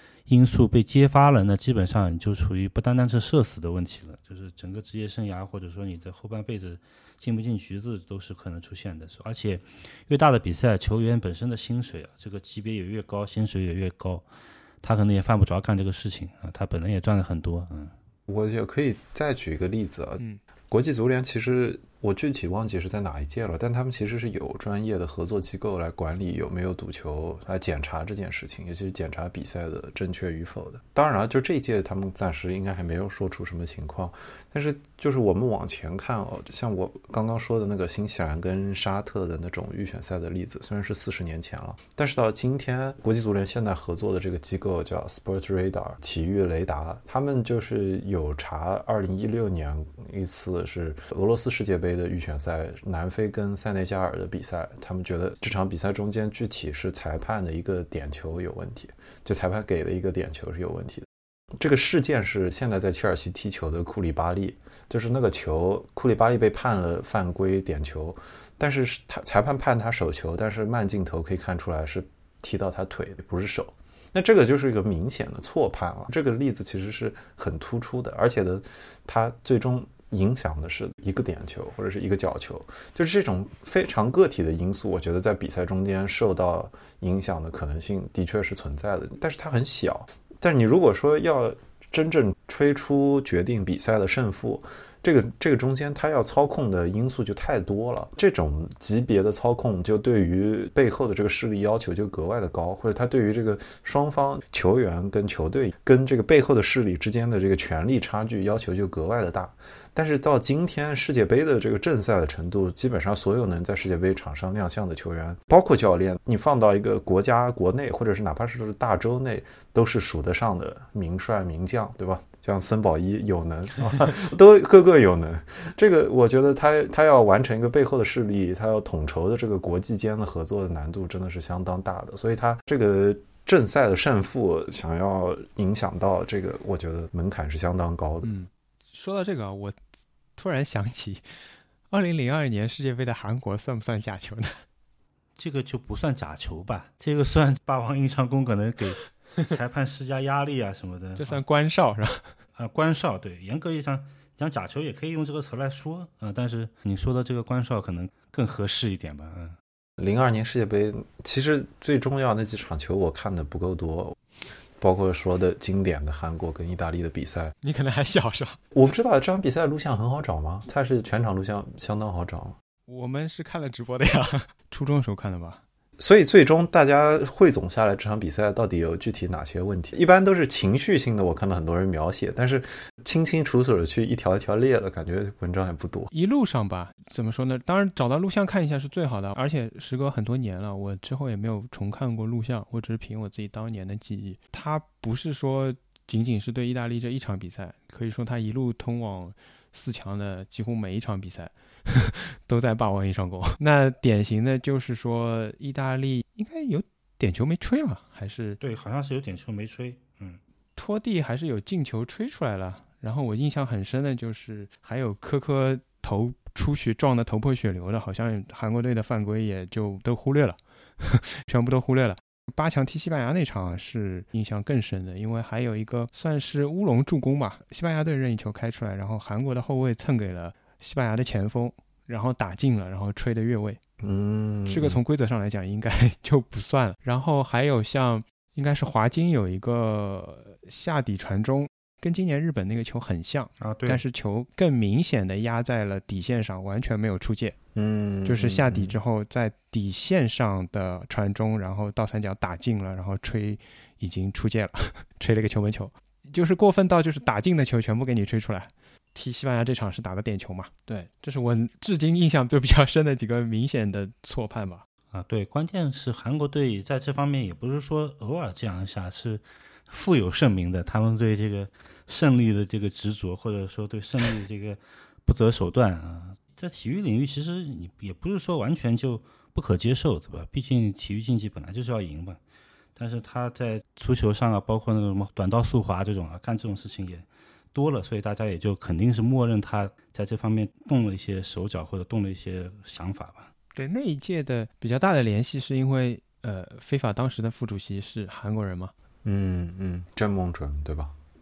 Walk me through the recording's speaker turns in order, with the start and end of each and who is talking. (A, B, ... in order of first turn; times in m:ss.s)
0:00.3-0:14.2 A
0:14.8-0:17.9 A
0:18.3-0:20.2 B
0:20.7-2:18.3 B
2:18.2-2:19.8 C
2:20.4-2:21.2 C
2:21.9-2:24.6 C
2:25.4-2:31.4 A
2:31.2-2:32.3 C
2:32.6-2:39.6 A
2:40.0-2:44.2 B
2:44.8-2:47.5 B
2:47.6-2:48.6 C
2:48.7-2:52.6 B
2:52.9-2:55.6 C
2:56.0-3:06.1 B
3:06.1-3:28.6 C
3:28.6-3:30.4 A
3:30.8-3:53.8 C
3:54.0-3:55.0 B
3:54.7-4:07.6 C
4:03.6-4:04.0 A
4:07.7-4:09.0 B
4:08.2-4:24.8 C
4:25.1-4:42.4 A
4:43.0-4:53.5 A
4:53.7-4:58.9 C
4:59.2-5:01.1 B